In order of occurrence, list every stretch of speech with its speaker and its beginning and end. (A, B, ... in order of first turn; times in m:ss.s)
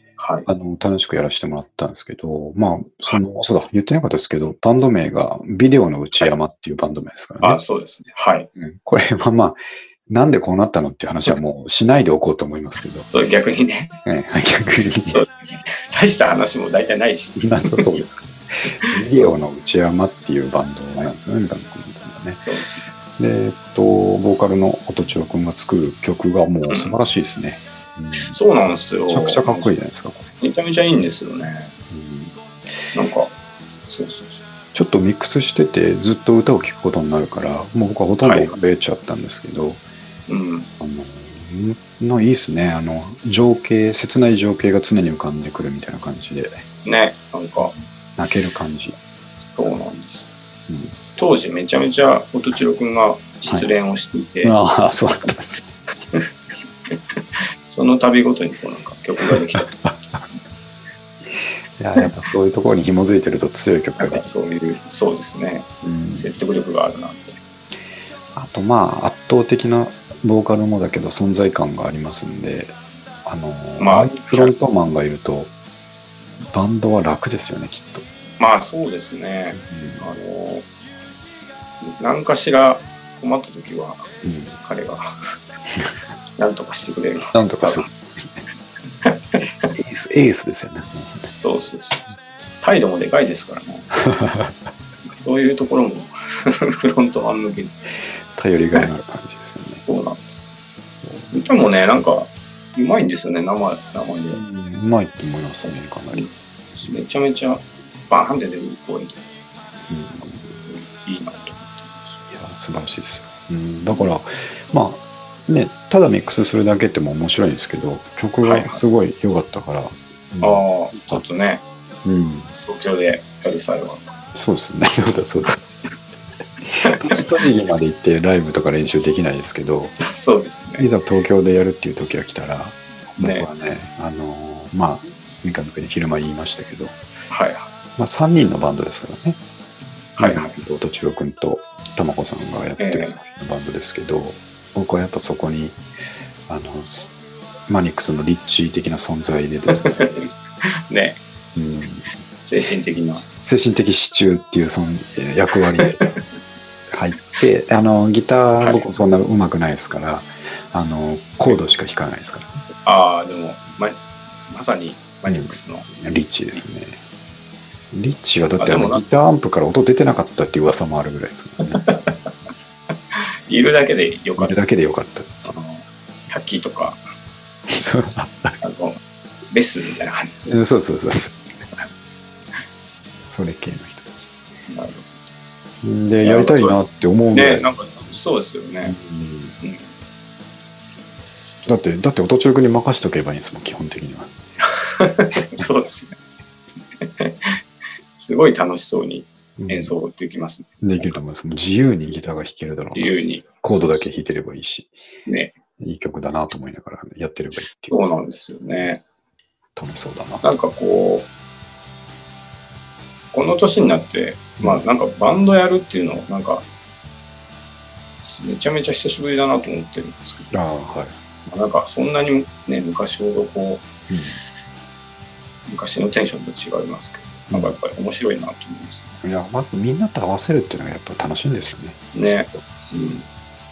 0:00.2-0:00.5 A
0:00.5-0:07.7 B
0:07.4-0:08.5 A
0:08.6-0:13.1 B
0:13.1-0:14.0 A
0:14.0-0:15.2 B
0:15.1-0:18.0 A
0:17.4-0:22.4 B
0:18.9-0:19.3 A
0:22.4-0:22.9 A
0:23.2-0:28.4 B
0:26.7-0:27.0 A
0:28.2-0:29.7 A
0:29.1-0:30.3 B
0:30.4-0:31.7 A
0:31.9-0:32.4 B
0:32.9-0:33.3 A
0:33.9-0:34.4 A
0:34.7-0:39.8 B
0:38.2-0:38.6 A
0:40.3-0:40.7 A
0:40.8-0:46.6 B
0:46.8-0:47.7 A
0:47.7-0:49.0 B
0:49.5-0:50.3 A
0:50.7-0:51.0 B
0:51.2-0:54.6 A
0:54.4-0:55.7 B
0:57.7-0:59.7 A
0:59.6-1:00.2 B
1:01.8-1:04.3 B
1:04.0-1:07.4 A
1:05.8-1:06.3 B
1:08.3-1:15.5 B
1:13.8-1:14.5 A
1:16.4-1:18.0 B
1:18.4-1:20.7 A
1:19.6-1:20.1 B
1:21.8-1:24.1 A
1:24.2-1:24.6 B
1:24.6-1:25.1 A
1:26.4-1:27.9 A
1:27.3-1:28.0 B
1:29.0-1:29.7 A
1:29.7-1:31.3 B
1:31.4-1:33.9 A
1:34.0-1:34.6 B
1:35.1-1:37.7 A
1:38.3-1:39.8 B
1:39.9-1:40.6 A
1:40.9-1:41.3 B
1:41.3-1:44.4 A
1:44.3-1:46.3 B
1:46.1-1:49.2 A
1:49.9-1:50.5 B
1:50.6-1:52.2 A
1:52.3-2:01.2 B
1:58.4-1:58.8 A
2:00.4-2:01.6 A
2:02.0-2:02.5 B
2:02.6-2:04.1 A
2:04.3-2:05.6 B
2:06.7-2:10.0 B
2:06.8-2:07.3 A
2:10.0-2:10.9 A
2:10.8-2:17.0 B
2:13.2-2:13.4 A
2:17.3-2:17.7 A
2:18.0-2:19.4 B
2:20.2-2:20.6 A
2:20.2-2:25.8 B
2:22.8-2:23.2 A
2:26.5-2:27.1 B
2:27.7-2:30.3 B
2:29.7-2:31.2 A
2:31.6-2:32.1 B
2:32.4-2:33.2 A
2:33.4-2:36.0 B
2:36.9-2:42.6 B
2:38.6-2:39.0 A
2:42.8-2:44.0 A
2:44.5-2:45.9 A
2:45.3-2:47.0 B
2:47.9-2:51.9 B
2:48.6-2:49.0 A
2:51.7-2:52.1 A
2:53.1-2:54.6 A
2:54.4-2:55.6 B
2:55.4-2:57.0 A
2:57.7-2:58.6 B
2:58.6-2:59.0 A
2:59.5-3:00.6 A
3:00.5-3:01.4 B
3:03.2-3:04.3 B
3:04.7-3:05.2 A
3:05.8-3:07.7 B
3:06.2-3:06.8 A
3:07.3-3:09.0 A
3:08.9-3:09.6 B
3:09.6-3:09.9 A
3:11.4-3:11.7 A
3:11.7-3:14.3 B
3:14.8-3:16.2 A
3:17.0-3:17.6 A
3:18.2-3:21.1 A
3:19.6-3:19.9 B
3:20.8-3:25.0 B
3:22.9-3:24.0 A
3:25.3-3:25.6 A
3:25.8-3:28.2 B
3:27.9-3:29.0 A
3:29.8-3:30.5 B
3:30.4-3:31.3 A
3:33.3-3:36.6 A
3:38.2-3:40.6 A
3:40.5-3:41.1 B
3:41.4-3:43.9 A
3:44.1-3:44.4 B
3:45.7-3:49.2 A
3:47.5-3:47.8 B
3:49.2-3:52.0 B
3:52.1-3:53.2 A